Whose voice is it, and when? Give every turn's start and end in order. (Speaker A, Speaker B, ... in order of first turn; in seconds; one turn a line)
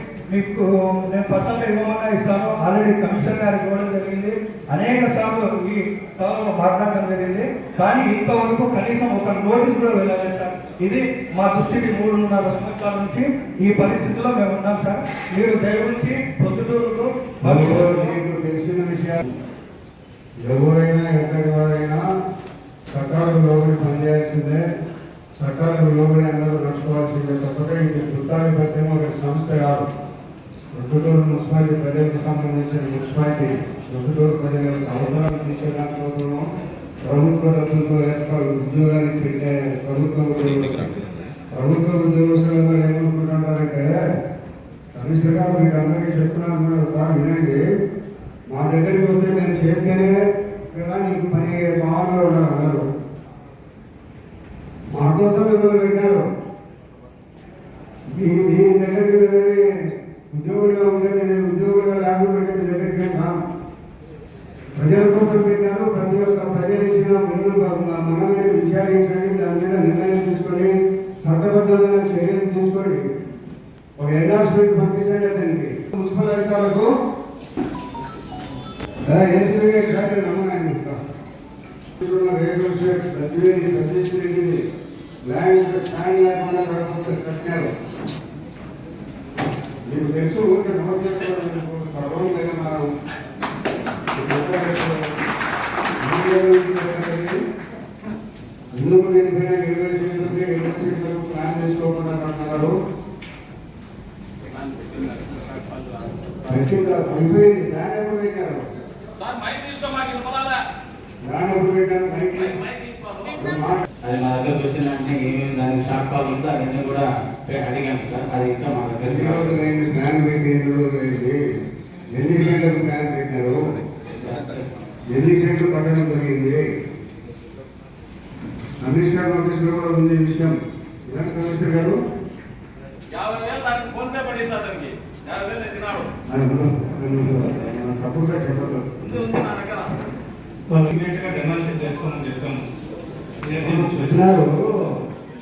Speaker A: 0.3-18.2
Speaker B: 17.4-19.2
Speaker B: 20.4-22.0
Speaker B: 22.9-24.6
Speaker B: 25.4-29.9
Speaker B: 30.7-36.5
Speaker B: 37.0-40.9
Speaker C: 40.4-40.9
Speaker B: 41.5-44.0
Speaker B: 44.9-47.7
Speaker B: 48.5-52.9
Speaker B: 54.9-56.2
Speaker B: 58.1-59.7
Speaker B: 60.3-63.3
Speaker B: 64.8-73.1
Speaker B: 74.0-76.9
Speaker B: 79.1-81.0
Speaker B: 82.0-84.6
Speaker B: 85.2-87.7
Speaker B: 89.9-92.9
Speaker B: 94.1-95.1
Speaker B: 96.0-97.4
Speaker B: 98.7-102.8
Speaker D: 104.5-106.9
Speaker B: 106.5-108.7
Speaker C: 109.2-110.7
Speaker B: 111.2-112.6
Speaker C: 112.4-113.3
Speaker B: 113.3-113.9
Speaker D: 114.0-119.6
Speaker B: 119.0-121.4
Speaker B: 122.1-123.6
Speaker D: 124.1-124.7
Speaker B: 125.1-126.7
Speaker B: 128.8-132.0
Speaker C: 133.1-136.1
Speaker B: 136.3-139.2
Speaker C: 139.0-139.9
Speaker A: 140.7-142.6
Speaker B: 143.6-144.9
Speaker A: 143.7-144.2